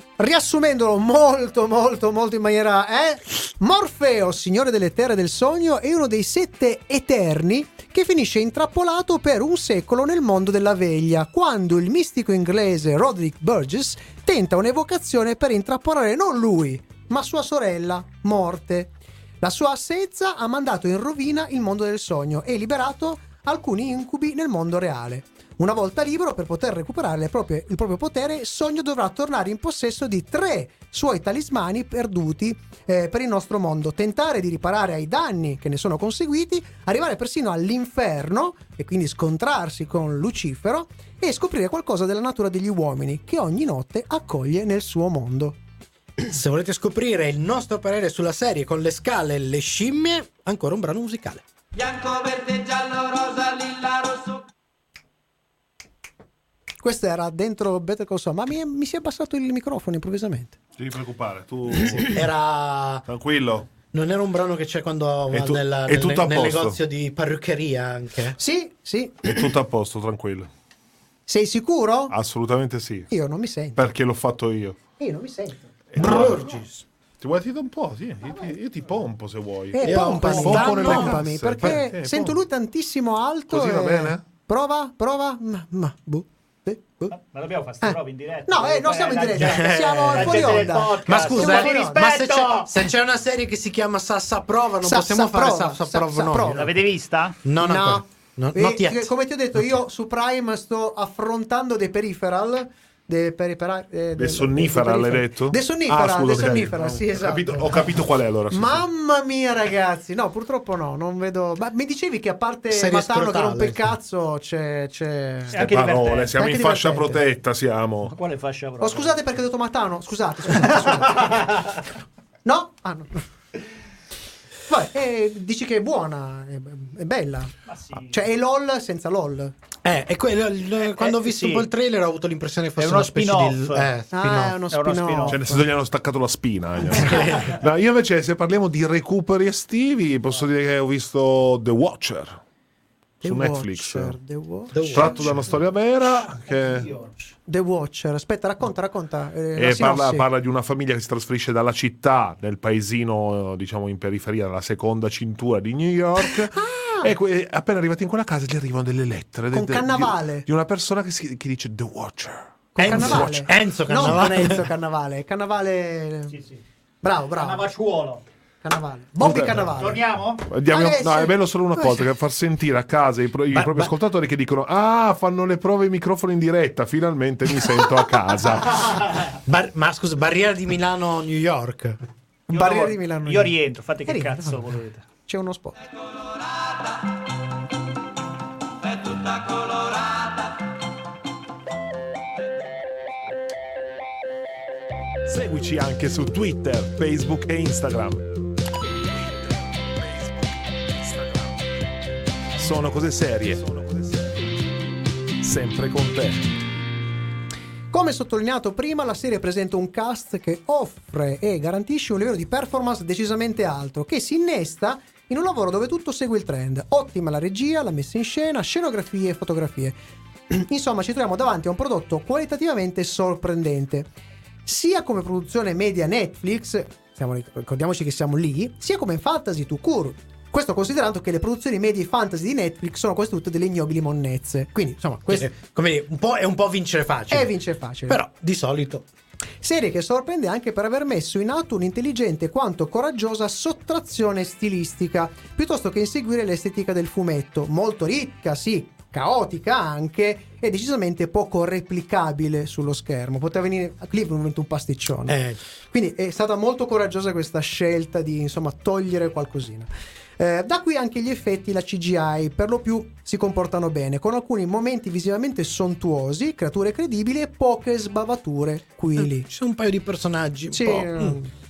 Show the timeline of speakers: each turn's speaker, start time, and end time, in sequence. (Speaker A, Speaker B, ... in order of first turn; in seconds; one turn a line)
Speaker A: 0.2-45.6
Speaker B: 46.2-51.5
Speaker C: 51.9-54.0
Speaker A: 56.8-60.6
Speaker D: 60.8-62.3
Speaker B: 62.0-63.1
Speaker D: 63.1-63.7
Speaker B: 63.9-68.4
Speaker D: 65.3-66.8
Speaker A: 68.4-69.3
Speaker D: 69.2-70.5
Speaker A: 71.3-72.1
Speaker D: 72.1-73.1
Speaker A: 73.1-73.9
Speaker D: 73.8-74.8
Speaker A: 75.0-76.2
Speaker D: 75.9-76.7
Speaker B: 76.0-76.8
Speaker D: 77.2-82.4
Speaker A: 79.7-87.1
Speaker B: 79.8-81.8
Speaker D: 83.5-84.2
Speaker E: 87.1-92.7
Speaker A: 87.8-92.0
Speaker B: 89.3-96.7
Speaker A: 94.8-96.7
Speaker E: 96.5-97.4
Speaker B: 97.4-99.1
Speaker A: 97.6-107.7
Speaker D: 104.2-108.8
Speaker A: 108.5-115.8
Speaker B: 112.7-113.9
Speaker E: 115.5-116.4
Speaker D: 115.5-118.2
Speaker A: 116.4-117.2
Speaker E: 118.0-119.2
Speaker A: 118.8-121.5
Speaker E: 120.6-121.8
Speaker A: 122.5-123.3
Speaker A: 124.7-127.5
Speaker E: 127.7-128.2
Speaker A: 128.1-129.5
Speaker B: 129.8-134.6
Speaker E: 131.0-131.7
Speaker E: 132.8-133.9
Speaker A: 134.1-135.4
Speaker E: 134.7-135.5
Speaker D: 135.3-142.4
Speaker B: 136.9-137.6
Speaker A: 143.2-145.0
Speaker D: 143.2-144.2
Speaker B: 144.7-145.6
Speaker D: 144.9-146.9
Speaker E: 146.5-147.2
Speaker A: 147.5-150.3
Speaker D: 149.6-163.3
Speaker A: 156.2-157.1
Speaker A: 159.5-160.5
Speaker A: 162.8-166.3
Speaker B: 162.8-164.7
Speaker E: 166.3-166.6
Speaker A: 167.0-167.6
Speaker E: 167.4-168.2
Speaker A: 168.6-170.0
Speaker D: 169.2-169.8
Speaker E: 169.8-170.4
Speaker D: 170.5-179.1
Speaker A: 170.7-172.0
Speaker B: 173.5-173.9
Speaker B: 179.4-182.0
Speaker A: 182.5-184.7
Speaker E: 182.5-185.1
Speaker A: 185.3-185.8
Speaker D: 195.3-198.3
Speaker D: 201.0-201.5
Speaker D: 202.6-204.4
Speaker D: 205.4-206.5
Speaker A: 207.9-220.0
Speaker A: 220.5-224.1
Speaker A: 224.7-235.5
Speaker B: 235.3-237.5
Speaker A: 237.3-238.2
Speaker B: 238.1-239.1
Speaker A: 239.6-255.4
Speaker B: 255.3-255.6
Speaker A: 255.9-269.5
Speaker B: 269.2-271.4
Speaker A: 270.7-271.5